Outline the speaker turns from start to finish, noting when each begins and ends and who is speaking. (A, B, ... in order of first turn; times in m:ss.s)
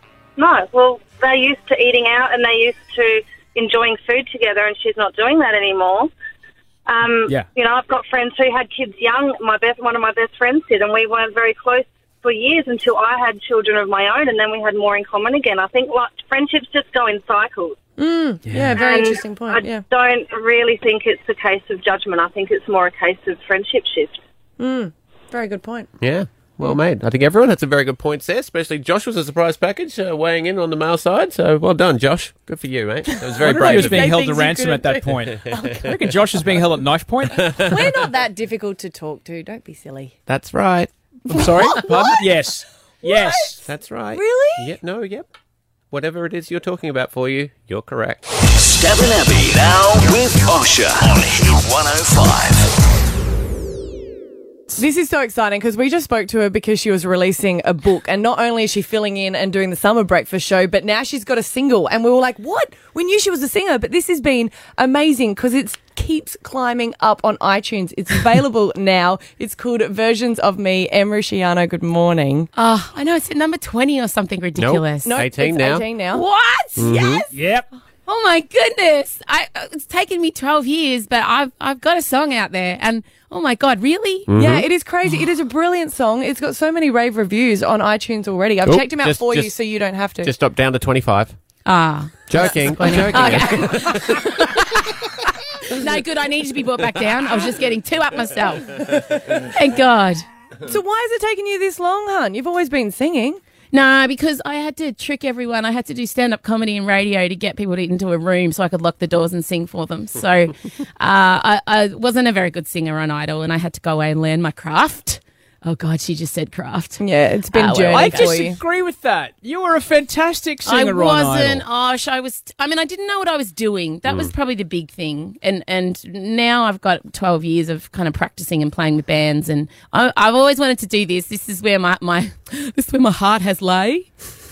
0:00.4-0:06.1 A
0:06.9-0:17.8 A
0:18.0-0:19.8 B
0:18.5-0:18.8 C
0:18.8-0:24.2 A
0:24.6-0:25.9 B
0:26.0-0:34.2 D
0:33.2-0:35.8 B
0:33.4-0:37.7 C
0:35.5-0:35.8 D
0:37.3-0:38.0 D
0:37.4-0:40.2 B
0:40.3-0:40.9 D
0:41.3-0:43.7 C
0:41.3-0:42.2 B
0:43.0-0:43.5 B
0:43.7-0:45.3 D
0:44.1-0:44.7 B
0:45.9-0:48.3 D
0:48.6-0:52.7 E
0:54.7-1:12.5 B
1:12.6-1:15.2 F
1:14.6-1:15.9 D
1:15.0-1:16.3 B
1:16.1-1:17.3 F
1:16.8-1:17.2 D
1:16.8-1:17.2 B
1:17.3-1:17.7 C
1:18.1-1:24.3 F
1:24.3-1:24.7 D
1:24.4-1:30.3 B
1:28.6-1:29.6 D
1:30.2-1:31.4 D
1:31.7-1:40.2 F
1:32.3-1:34.6 D
1:32.8-1:34.2 B
1:40.7-1:43.4 B
1:43.7-1:58.4 F
1:57.0-1:58.6 B
1:57.9-2:01.6 C
2:00.6-2:14.1 F
2:04.1-2:04.3 D